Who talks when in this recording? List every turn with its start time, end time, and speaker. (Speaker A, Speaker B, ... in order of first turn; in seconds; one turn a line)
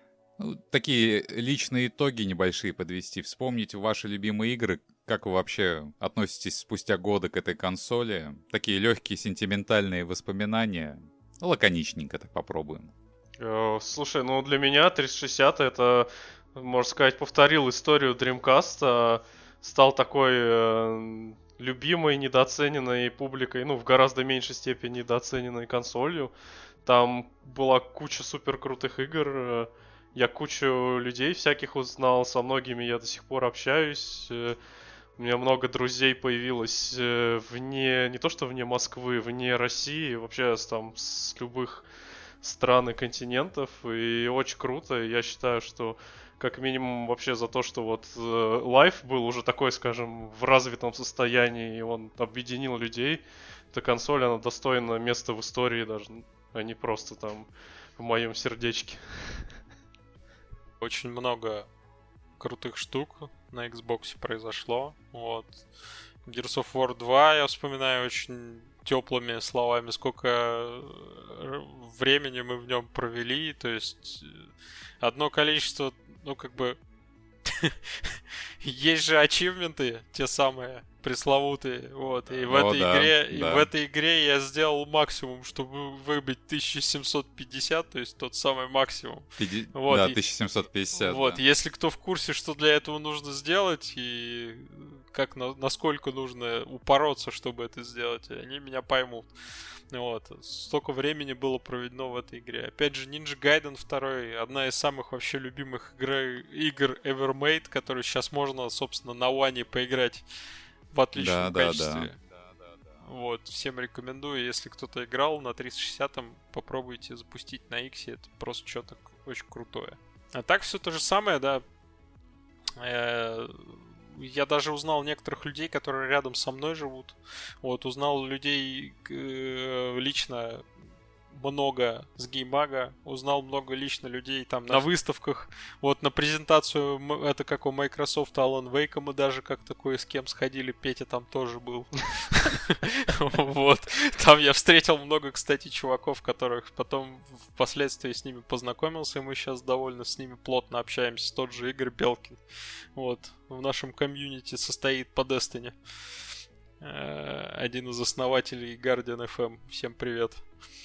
Speaker A: 0.4-12.9
Speaker B: 13.4-26.3
Speaker B: 26.9-34.6
Speaker B: 35.2-41.9
Speaker B: 42.4-53.2
Speaker B: 53.7-59.5
Speaker C: 60.8-61.7
Speaker C: 62.4-65.6
Speaker C: 66.3-74.5
Speaker C: 75.0-76.8
Speaker C: 77.5-90.2
Speaker A: 82.5-83.7
Speaker A: 89.4-91.4
Speaker C: 91.0-99.3
Speaker C: 99.9-110.2
Speaker C: 110.9-112.2
Speaker A: 111.2-112.1
Speaker C: 113.0-121.6
Speaker C: 122.8-130.7
Speaker C: 131.3-152.4
Speaker C: 152.9-155.8
Speaker C: 156.8-160.4